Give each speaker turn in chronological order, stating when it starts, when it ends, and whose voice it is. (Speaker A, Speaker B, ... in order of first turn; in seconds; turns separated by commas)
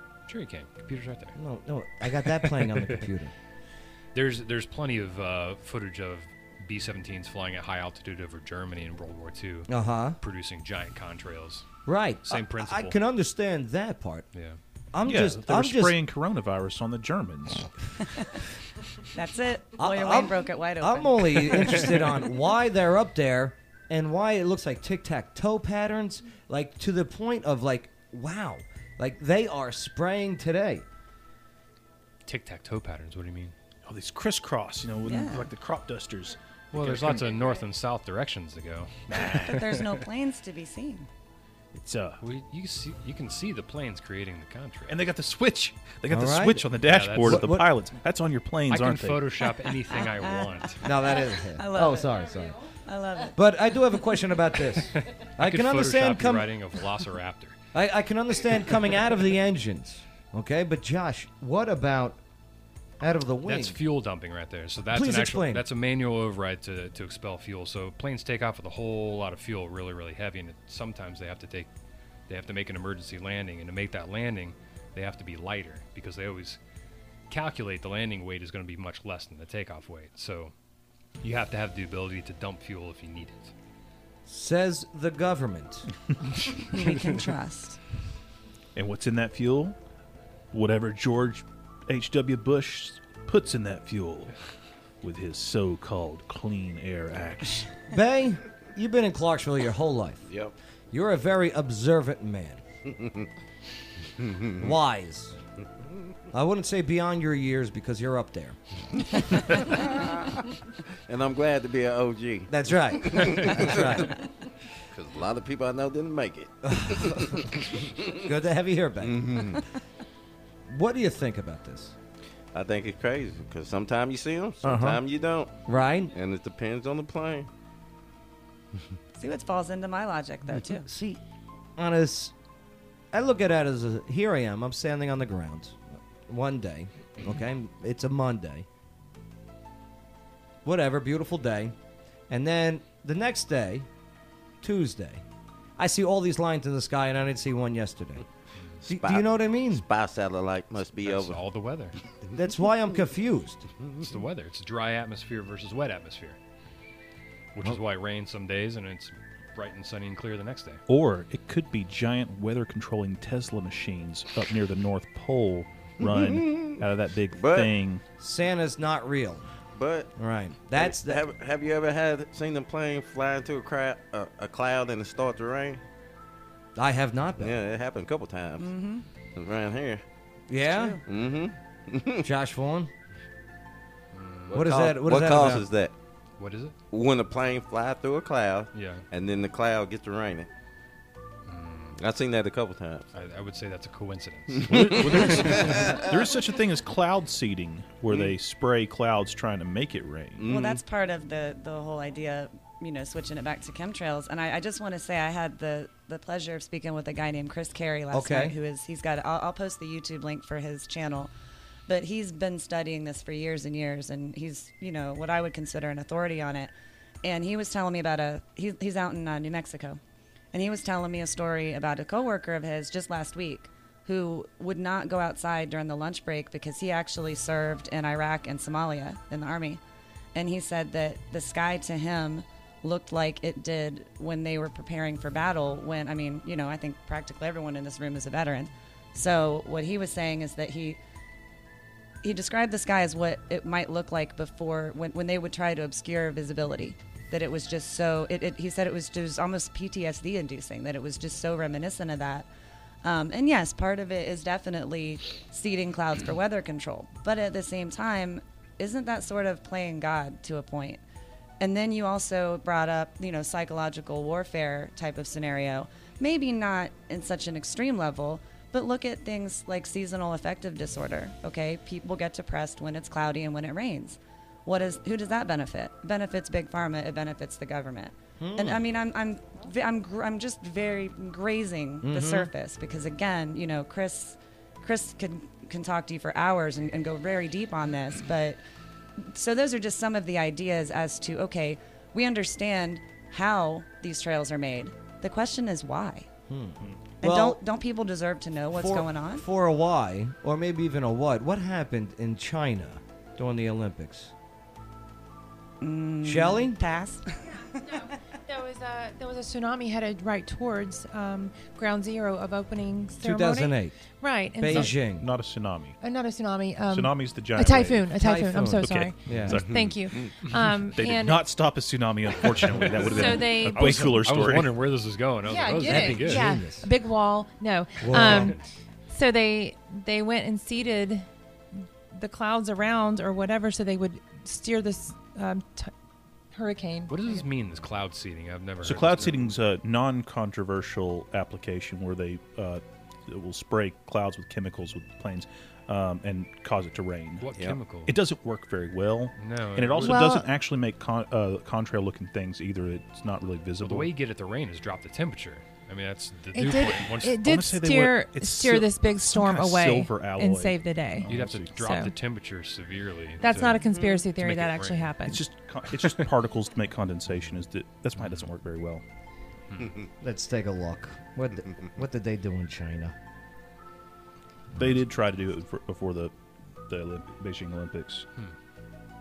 Speaker A: 0.3-1.4, Speaker B: 1.4-3.3, Speaker A: 2.2-2.9, Speaker A: 4.2-9.7, Speaker B: 9.7-10.2, Speaker A: 10.2-11.7, Speaker B: 11.9-14.3, Speaker A: 12.3-12.9, Speaker B: 14.9-16.0, Speaker C: 15.1-17.7, Speaker D: 19.1-21.9, Speaker B: 19.8-30.9, Speaker A: 32.3-33.5, Speaker C: 33.9-37.4, Speaker D: 35.0-35.5, Speaker A: 36.7-38.9, Speaker C: 39.1-39.6, Speaker D: 39.2-41.1, Speaker A: 39.5-39.9, Speaker C: 41.8-42.2, Speaker A: 42.2-45.0, Speaker C: 44.9-49.4, Speaker B: 46.1-47.7, Speaker A: 46.8-47.5, Speaker A: 48.7-50.8, Speaker D: 50.0-52.2, Speaker B: 50.8-52.6, Speaker D: 52.9-53.4, Speaker B: 53.4-56.5, Speaker A: 54.9-57.6, Speaker B: 57.7-62.2, Speaker B: 63.0-63.8, Speaker A: 63.5-71.7, Speaker B: 64.9-65.7, Speaker A: 72.3-76.6, Speaker A: 77.3-80.5, Speaker A: 81.2-83.5, Speaker B: 84.3-85.9, Speaker D: 86.7-87.8, Speaker C: 88.8-89.8, Speaker C: 90.5-94.3, Speaker C: 95.0-97.7, Speaker B: 97.9-100.3, Speaker E: 100.3-100.5, Speaker B: 100.9-102.6, Speaker E: 102.9-103.3, Speaker E: 104.2-104.6, Speaker B: 104.6-105.4, Speaker B: 106.3-108.6, Speaker E: 109.3-110.4, Speaker E: 111.1-114.1, Speaker B: 112.5-114.1, Speaker E: 114.9-118.2, Speaker B: 116.6-119.6, Speaker E: 119.0-119.7, Speaker B: 120.7-122.0, Speaker E: 122.5-125.5, Speaker B: 124.6-125.0, Speaker B: 125.7-126.1, Speaker E: 126.1-127.5, Speaker D: 129.2-130.9, Speaker B: 130.6-131.2, Speaker B: 131.8-132.3, Speaker B: 133.1-138.7, Speaker B: 140.7-141.8, Speaker B: 142.3-143.9, Speaker B: 144.6-145.2, Speaker B: 145.8-148.2, Speaker E: 148.8-151.4, Speaker B: 148.9-149.8, Speaker A: 151.0-152.0, Speaker B: 152.3-153.7, Speaker A: 154.0-156.4, Speaker A: 157.5-160.8, Speaker C: 160.9-168.0, Speaker E: 166.0-166.7, Speaker E: 167.4-167.7, Speaker B: 168.2-169.5, Speaker E: 169.8-170.1, Speaker B: 170.2-171.3, Speaker E: 170.8-175.8, Speaker B: 176.8-177.6, Speaker E: 177.4-178.7, Speaker D: 178.6-179.0, Speaker E: 179.4-180.0, Speaker B: 180.5-181.0, Speaker D: 180.7-181.0, Speaker E: 181.1-182.2, Speaker B: 182.2-182.9, Speaker A: 184.1-184.5, Speaker E: 184.5-185.9, Speaker B: 184.5-185.7, Speaker A: 186.4-186.8, Speaker E: 186.9-190.5, Speaker A: 188.7-189.0, Speaker A: 191.5-192.0, Speaker E: 192.0-193.1, Speaker A: 193.1-196.0, Speaker E: 194.6-196.1, Speaker C: 194.7-200.4, Speaker E: 200.4-200.8, Speaker D: 200.5-211.3, Speaker B: 208.1-208.6, Speaker D: 211.9-216.7, Speaker D: 217.2-220.0, Speaker D: 220.5-229.8, Speaker D: 230.3-241.0, Speaker D: 242.2-252.5, Speaker D: 253.0-261.0, Speaker D: 261.6-288.6, Speaker B: 278.4-278.8, Speaker B: 282.0-282.5, Speaker D: 289.2-296.3, Speaker B: 296.5-297.6, Speaker D: 297.2-299.4, Speaker B: 298.8-304.3, Speaker D: 305.8-307.3, Speaker B: 306.2-306.8, Speaker F: 308.5-314.9, Speaker B: 313.2-314.0, Speaker B: 314.6-315.3, Speaker C: 314.7-316.0, Speaker F: 316.0-321.4, Speaker C: 316.9-318.1, Speaker B: 318.1-319.6, Speaker C: 318.8-320.2, Speaker C: 320.9-324.8, Speaker A: 322.7-326.5, Speaker F: 323.0-324.0, Speaker F: 325.5-328.6, Speaker B: 325.8-326.9, Speaker B: 328.0-328.6, Speaker F: 329.1-331.3, Speaker F: 332.1-335.9, Speaker F: 336.5-337.4, Speaker A: 337.1-339.5, Speaker C: 338.8-347.5, Speaker A: 347.4-348.1, Speaker C: 348.1-354.1, Speaker A: 349.4-350.2, Speaker F: 350.0-350.5, Speaker A: 353.8-357.4, Speaker F: 356.5-362.1, Speaker C: 356.6-361.8, Speaker A: 361.3-365.1, Speaker F: 363.4-365.4, Speaker C: 365.2-369.0, Speaker A: 369.7-369.9, Speaker B: 370.2-373.1, Speaker C: 374.8-376.3, Speaker C: 376.9-378.3